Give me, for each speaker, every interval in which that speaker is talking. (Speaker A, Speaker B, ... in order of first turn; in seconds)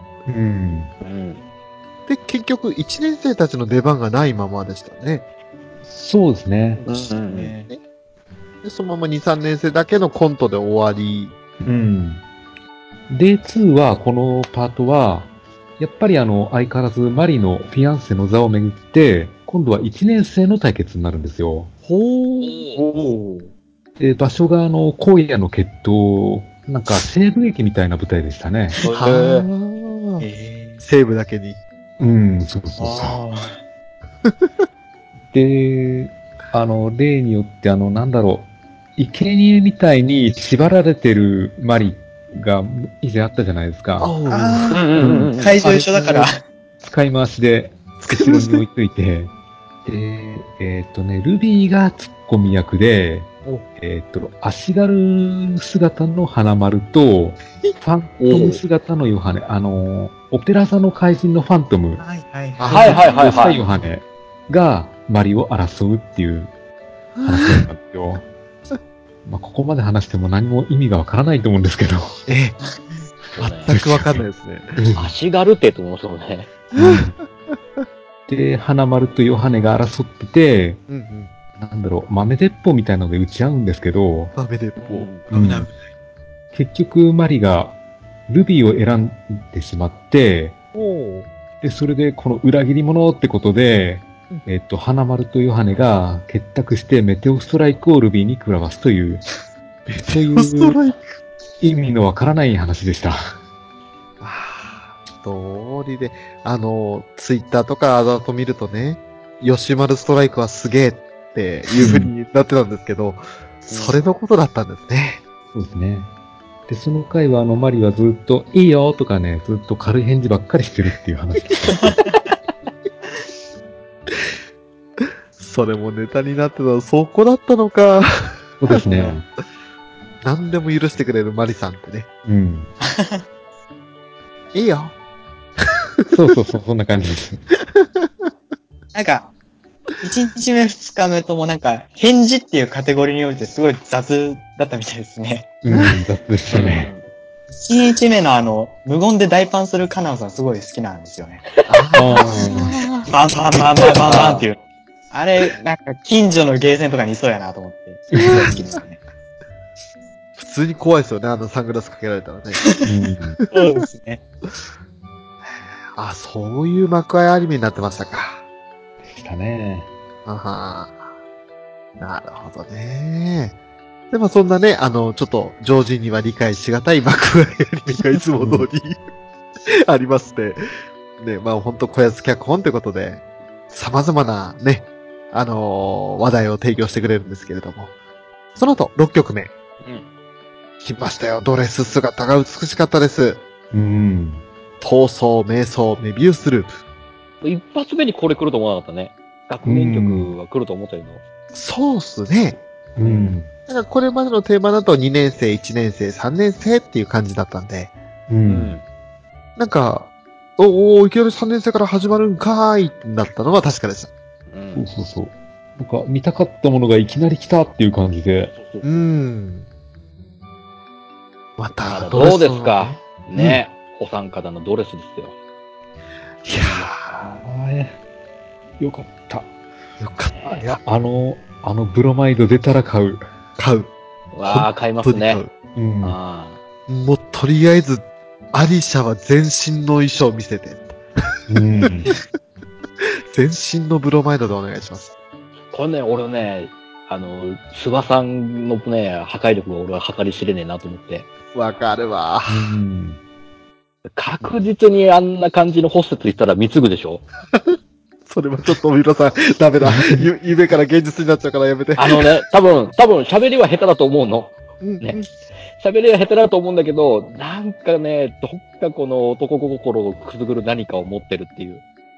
Speaker A: 0.2-0.9, 5.9-6.8, 11.6-12.2, 13.1-21.7, 24.0-28.8, 32.0-33.2, 35.3-44.1, 45.0-45.8, 46.8-49.3, 49.9-62.0, 62.7-66.5, 67.2-68.2, 69.2-72.2, 73.7-74.2, 74.8-75.1, 76.7-77.1, 78.3-80.8, 81.5-84.3, 85.3-85.7, 86.5-87.8, 88.3-90.6, 91.6-99.2, 100.0-100.8, 101.6-103.3, 111.8-112.1, 115.5-116.1, 116.7-122.0, 128.6-129.2, 132.2-132.7, 136.1-137.4, 145.6-146.9, 151.9-152.7, 158.1-158.5, 162.8-163.4, 169.1-169.9, 178.4-178.7, 193.7-194.4, 199.6-200.3, 202.9-203.5, 208.3-208.8, 214.7-218.6, 227.4-227.9, 228.8-229.5, 230.4-233.2, 235.7-236.2, 241.5-242.1, 252.5-253.2, 259.8-260.3
Speaker B: 1.0-1.4, 6.9-7.5, 22.4-22.8, 28.8-29.5, 44.7-45.6, 58.2-58.6, 62.7-63.6, 73.4-73.7, 75.0-76.5, 84.8-85.2, 113.7-114.0, 146.5-147.1, 154.0-154.4, 197.4-201.2, 203.0-203.3, 208.4-208.8, 214.5-214.9, 218.6-219.0, 221.9-225.3, 226.6-227.4, 234.3-235.4, 236.0-236.6, 245.7-251.3, 254.2-257.2, 262.0-265.2, 265.8-271.8
Speaker C: 2.1-5.2, 8.6-11.4, 21.8-22.7, 28.9-30.2, 30.8-31.6, 44.0-46.3, 48.0-48.6, 62.6-63.0, 67.2-67.7, 72.3-72.6, 73.4-74.7, 76.8-77.6, 80.9-81.3, 84.4-85.1, 90.7-91.3, 100.0-101.0, 104.2-115.2, 125.4-128.9, 130.2-132.1, 134.5-134.9, 137.8-138.3, 145.7-146.0, 151.7-153.1, 160.4-162.7, 165.9-168.4, 170.2-171.0, 172.0-173.6, 174.1-179.0, 179.7-180.6, 181.2-187.9, 188.6-189.5, 190.8-193.4, 194.8-196.8, 201.5-202.6, 203.7-207.9, 209.6-214.1, 218.8-219.7, 221.6-223.6, 226.4-227.2, 230.0-230.8, 233.6-233.9, 234.4-235.5, 236.9-241.0, 243.0-245.1, 251.5-252.7, 258.2-262.4, 264.8-265.3
Speaker D: 7.2-7.7, 23.2-23.4, 30.2-30.8, 32.8-33.6, 44.3-46.4, 62.0-63.6, 85.3-85.7, 121.8-122.1, 128.8-129.1, 132.8-133.2, 138.9-139.3, 140.0-145.5, 147.6-151.4, 153.1-154.6, 155.1-159.0, 162.6-162.8, 163.5-164.2